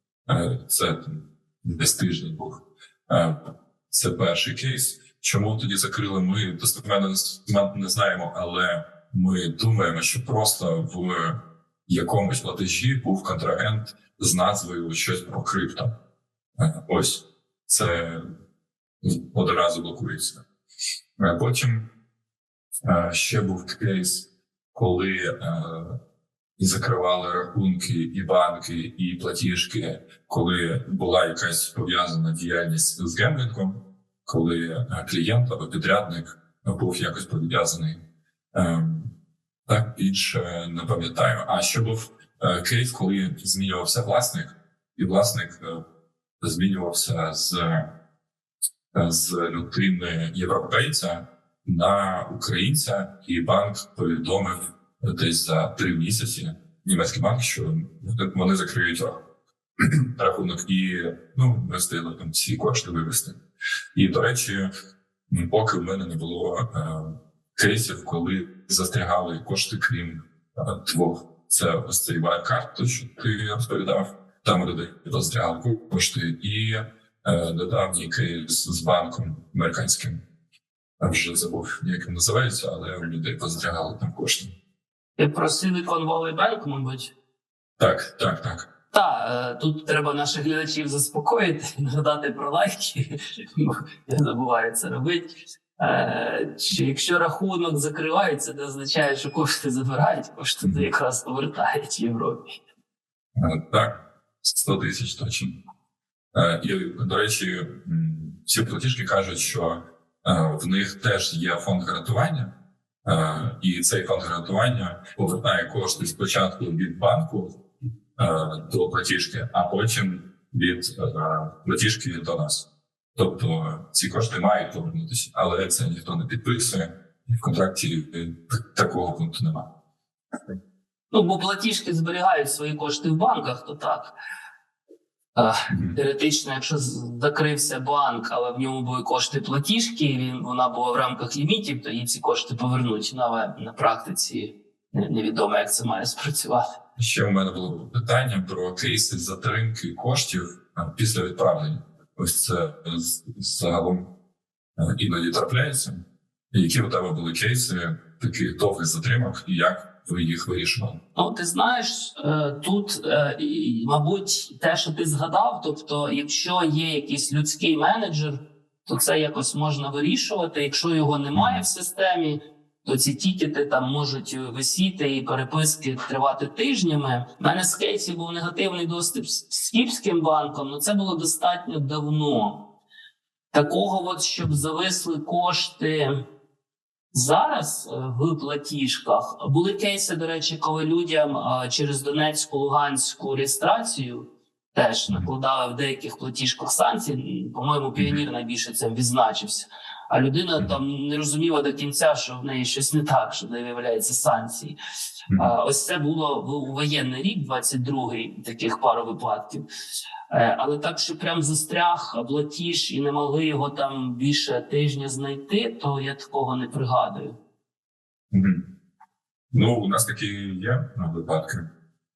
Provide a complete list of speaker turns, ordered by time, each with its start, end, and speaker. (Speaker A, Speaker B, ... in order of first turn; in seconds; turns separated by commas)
Speaker A: 0.2-15.9, Speaker A: 16.6-18.3, Speaker A: 19.0-20.4, Speaker A: 21.2-21.9, Speaker A: 22.8-26.0, Speaker A: 26.6-39.1, Speaker A: 39.7-45.8, Speaker A: 46.4-47.9, Speaker A: 48.9-59.2, Speaker A: 59.8-63.4, Speaker A: 63.9-64.7, Speaker A: 65.3-80.2, Speaker A: 81.0-84.5, Speaker B: 85.2-87.1, Speaker A: 87.8-88.7, Speaker B: 88.9-102.5, Speaker A: 100.6-100.9, Speaker A: 103.3-105.6, Speaker A: 106.3-112.5, Speaker A: 113.0-117.6, Speaker A: 118.2-129.7, Speaker B: 131.1-134.1, Speaker B: 135.3-146.6, Speaker A: 135.7-136.0, Speaker A: 147.0-154.1, Speaker A: 154.8-161.0, Speaker B: 161.1-182.6, Speaker A: 171.4-171.6, Speaker B: 183.5-186.2, Speaker B: 187.1-204.8, Speaker B: 205.3-209.7, Speaker B: 210.3-217.4, Speaker A: 218.3-218.7, Speaker A: 219.5-221.7